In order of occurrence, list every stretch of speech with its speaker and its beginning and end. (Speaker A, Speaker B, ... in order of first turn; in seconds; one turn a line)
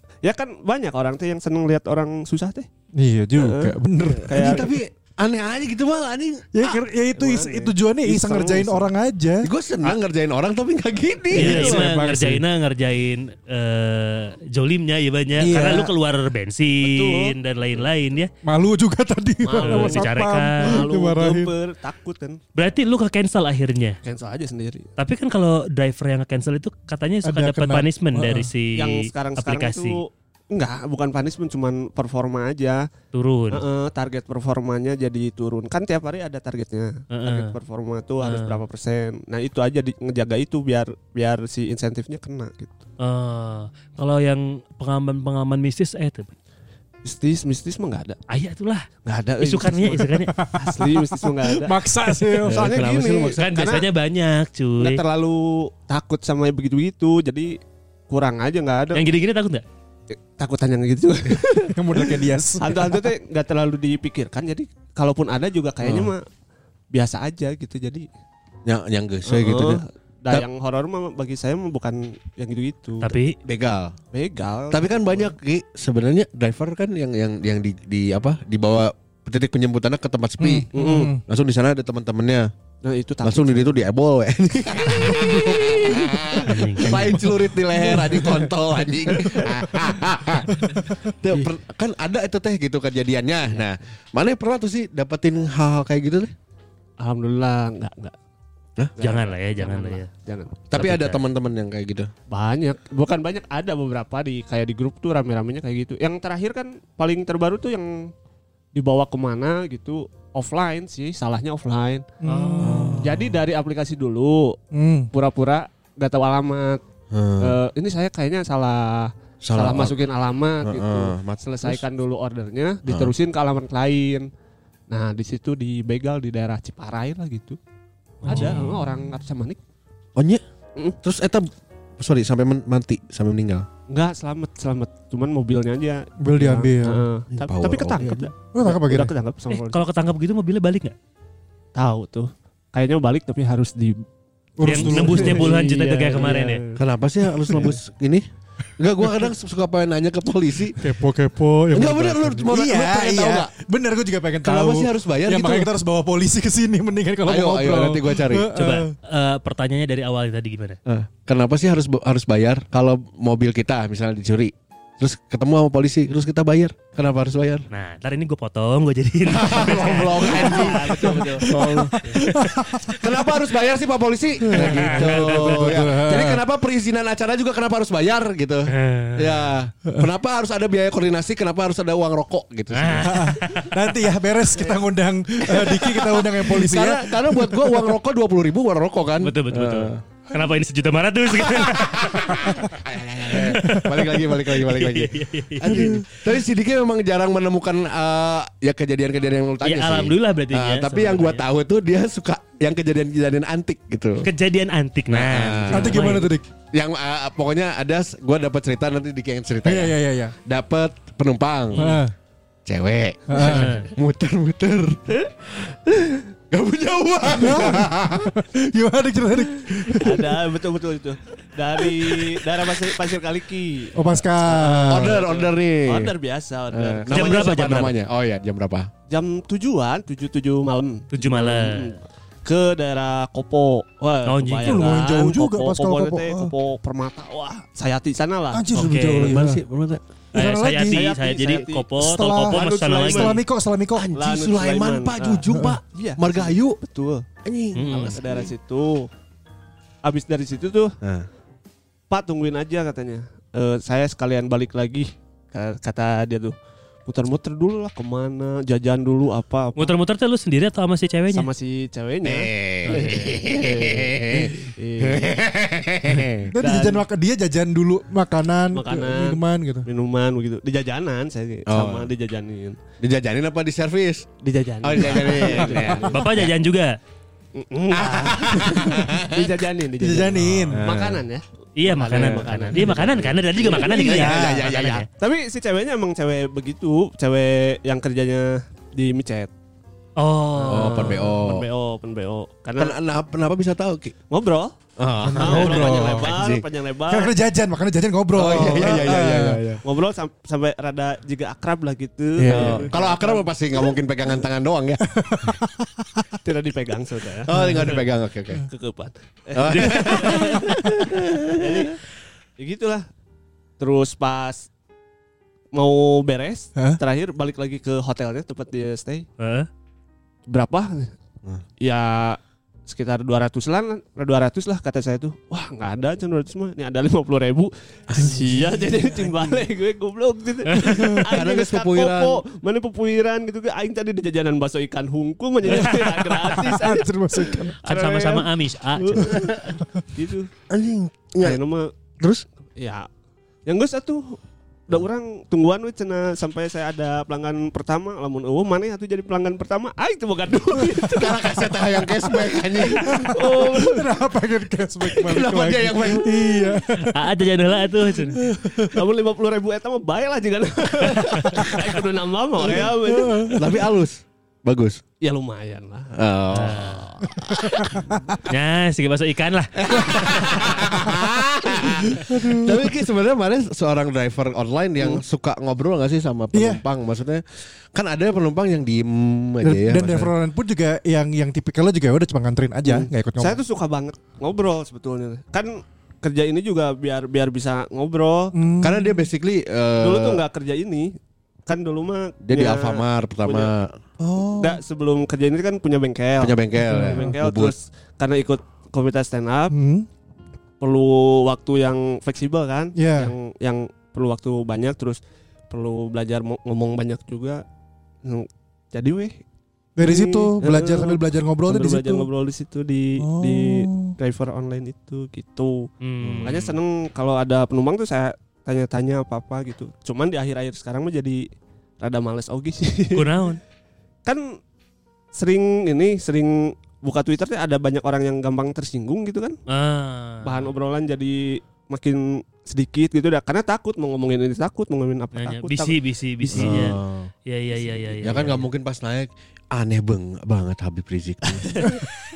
Speaker A: 0.2-2.7
Speaker B: 2.9-4.6
Speaker A: 3.4-4.7
Speaker C: 4.3-6.8
Speaker B: 6.5-9.5
Speaker A: 7.2-8.9
Speaker C: 9.4-11.8
Speaker A: 11.3-11.9
Speaker B: 11.3-12.4
Speaker D: 11.3-18.3
Speaker B: 15.4-15.9
Speaker A: 16.8-17.3
Speaker B: 18.4-21.5
Speaker A: 19.4-22.4
Speaker D: 19.6-20.8
Speaker D: 22.5-24.0
Speaker A: 24.0-24.9
Speaker D: 25.0-30.0
Speaker B: 27.2-28.5
Speaker A: 28.7-32.9
Speaker D: 33.1-33.6
Speaker A: 33.5-42.8
Speaker D: 37.1-37.5
Speaker D: 38.2-38.6
Speaker D: 43.0-46.3
Speaker A: 47.0-48.2
Speaker D: 48.3-48.9
Speaker A: 49.0-53.9
Speaker D: 49.4-50.3
Speaker B: 50.3-52.7
Speaker C: 52.5-53.4
Speaker D: 52.8-55.0
Speaker A: 54.8-57.6
Speaker A: 58.1-59.0
Speaker D: 58.9-59.6
Speaker A: 60.1-66.2
Speaker B: 61.6-63.0
Speaker C: 65.8-66.1
Speaker A: 66.9-68.1
Speaker C: 68.7-70.4
Speaker A: 69.3-73.1
Speaker D: 73.0-73.4
Speaker C: 73.4-73.9
Speaker A: 74.1-75.3
Speaker C: 74.7-82.5
Speaker B: 80.4-81.2
Speaker A: 80.7-81.1
Speaker A: 82.8-83.8
Speaker C: 83.2-96.3
Speaker A: 85.1-85.3
Speaker B: 85.1-85.5
Speaker D: 86.4-87.3
Speaker B: 87.8-88.4
Speaker B: 90.6-91.0
Speaker A: 97.0-98.1
Speaker A: 99.0-100.6
Speaker D: 99.0-100.1
Speaker C: 100.7-102.1
Speaker D: 100.7-101.2
Speaker A: 102.3-108.1
Speaker A: 108.7-112.0
Speaker B: 112.2-113.1
Speaker D: 112.2-113.0
Speaker C: 112.6-113.2
Speaker A: 113.0-114.6
Speaker B: 114.7-115.1
Speaker A: 115.1-116.8
Speaker C: 117.1-117.5
Speaker A: 117.4-124.3
Speaker C: 119.4-120.0
Speaker C: 120.6-121.8
Speaker C: 122.8-123.1
Speaker A: 124.9-127.6
Speaker D: 128.2-128.7
Speaker A: 128.2-129.6
Speaker B: 128.3-128.8
Speaker C: 130.2-130.4
Speaker C: 131.0-133.7
Speaker A: 133.9-139.8
Speaker B: 136.2-137.1
Speaker C: 137.4-138.3
Speaker B: 138.5-139.1
Speaker D: 139.5-140.9
Speaker A: 141.8-144.0
Speaker B: 144.6-145.6
Speaker D: 144.6-146.6
Speaker A: 144.6-146.8
Speaker C: 146.8-148.2
Speaker C: 148.8-150.8
Speaker B: 150.8-158.9
Speaker C: 151.7-153.5
Speaker C: 154.4-155.7
Speaker C: 157.2-158.5
Speaker D: 158.5-160.8
Speaker C: 160.8-167.7
Speaker D: 167.7-171.4
Speaker C: 169.2-183.4
Speaker A: 170.2-171.6
Speaker B: 171.4-173.0
Speaker D: 172.0-172.6
Speaker B: 174.4-176.4
Speaker D: 174.5-175.6
Speaker D: 178.7-179.5
Speaker D: 182.7-183.8
Speaker B: 183.0-188.0
Speaker C: 185.4-190.0
Speaker D: 189.2-192.5
Speaker C: 191.3-204.3
Speaker D: 193.3-196.0
Speaker D: 199.6-201.4
Speaker D: 204.2-206.3
Speaker C: 205.1-206.2
Speaker B: 205.7-206.5
Speaker C: 206.7-209.9
Speaker B: 209.6-210.3
Speaker C: 210.4-212.0
Speaker B: 211.8-212.1
Speaker C: 212.7-218.3
Speaker B: 213.3-213.8
Speaker D: 213.3-213.9
Speaker B: 217.3-220.4
Speaker A: 219.9-227.8
Speaker B: 223.9-225.2
Speaker C: 224.6-226.1
Speaker C: 226.7-228.9
Speaker D: 227.1-227.9
Speaker A: 229.1-238.7
Speaker D: 231.1-231.9
Speaker D: 234.2-234.9
Speaker B: 234.6-236.5
Speaker B: 238.5-239.6
Speaker D: 238.7-239.4
Speaker C: 239.1-240.0
Speaker B: 240.3-241.0
Speaker D: 240.3-243.4
Speaker A: 240.8-243.4
Speaker B: 242.0-244.1
Speaker C: 243.9-246.8
Speaker A: 244.1-247.2
Speaker B: 245.5-245.8
Speaker C: 247.4-248.5
Speaker D: 247.7-248.2
Speaker A: 247.9-249.1
Speaker A: 250.0-250.9
Speaker C: 251.0-251.3
Speaker A: 252.1-256.5
Speaker A: 257.1-259.9
Speaker D: 259.8-261.5
Speaker A: 261.3-265.3
Speaker C: 262.2-266.5
Speaker D: 262.8-263.4
Speaker B: 266.5-269.9
Speaker A: 266.6-267.0
Speaker A: 268.7-272.8
Speaker C: 271.7-272.1
Speaker C: 273.0-274.3
Speaker A: 274.4-276.3
Speaker C: 274.8-276.5
Speaker D: 276.0-276.9
Speaker A: 277.5-284.0
Speaker C: 277.9-279.4
Speaker B: 280.0-280.8
Speaker D: 280.4-280.7
Speaker C: 280.7-281.2
Speaker D: 281.8-285.1
Speaker C: 282.1-282.8
Speaker C: 283.6-285.1
Speaker B: 283.9-284.7
Speaker A: 285.2-289.5
Speaker D: 290.2-291.3
Speaker A: 290.6-292.9
Speaker C: 290.7-291.6
Speaker C: 292.8-294.1
Speaker A: 294.3-294.7
Speaker C: 295.0-296.6
Speaker B: 295.2-296.4
Speaker A: 295.3-297.3
Speaker B: 297.1-299.6
Speaker C: 298.3-299.8
Speaker A: 298.4-299.2
Speaker A: 299.8-303.5
Speaker B: 302.4-302.9
Speaker C: 302.5-305.0
Speaker D: 302.6-302.8
Speaker B: 305.1-306.3
Speaker A: 306.4-308.0
Speaker C: 307.4-308.6
Speaker B: 307.5-307.9
Speaker A: 308.7-312.0
Speaker C: 309.5-311.9
Speaker A: 312.6-313.1
Speaker A: 313.8-314.7
Speaker A: 315.7-319.2
Speaker D: 319.4-319.7
Speaker A: 320.5-321.1
Speaker A: 321.8-340.5
Speaker C: 328.1-328.4
Speaker D: 330.7-331.0
Speaker C: 331.2-332.4
Speaker D: 335.7-336.0
Speaker B: 335.7-337.8
Speaker D: 337.8-339.3
Speaker C: 339.3-339.7
Speaker C: 340.7-341.6
Speaker A: 341.4-341.9
Speaker A: 342.8-343.1
Speaker A: 343.6-344.4
Speaker A: 344.9-354.1
Speaker C: 351.0-353.4
Speaker B: 353.0-357.3
Speaker C: 355.2-356.6
Speaker D: 357.1-358.4
Speaker B: 358.3-359.0
Speaker A: 358.8-363.6
Speaker B: 362.9-363.7
Speaker C: 363.5-365.0
Speaker A: 365.2-366.1
Speaker C: 366.1-367.8
Speaker D: 366.5-367.1
Speaker B: 367.5-368.3
Speaker D: 368.5-370.4
Speaker C: 369.8-380.3
Speaker B: 370.7-371.4
Speaker B: 372.1-373.0
Speaker B: 376.5-376.8
Speaker B: 379.6-383.6
Speaker A: 382.8-388.5
Speaker B: 388.5-389.3
Speaker C: 388.8-390.4
Speaker A: 390.0-393.7
Speaker C: 392.4-394.0
Speaker B: 394.2-394.8
Speaker A: 394.6-399.8
Speaker C: 396.4-397.7
Speaker B: 396.8-397.4
Speaker B: 399.7-400.1
Speaker A: 400.8-407.6
Speaker B: 402.9-403.3
Speaker A: 408.2-409.4
Speaker B: 410.0-412.3
Speaker A: 410.0-415.9
Speaker B: 413.2-414.1
Speaker D: 416.0-416.7
Speaker C: 416.2-416.6
Speaker A: 416.4-421.5
Speaker A: 422.0-423.4
Speaker D: 423.1-423.6
Speaker A: 424.2-424.6
Speaker A: 425.3-429.6
Speaker D: 429.7-430.7
Speaker A: 430.4-436.0
Speaker D: 435.4-438.6
Speaker A: 436.5-436.8
Speaker C: 436.5-437.3
Speaker C: 438.2-442.1
Speaker A: 441.6-442.0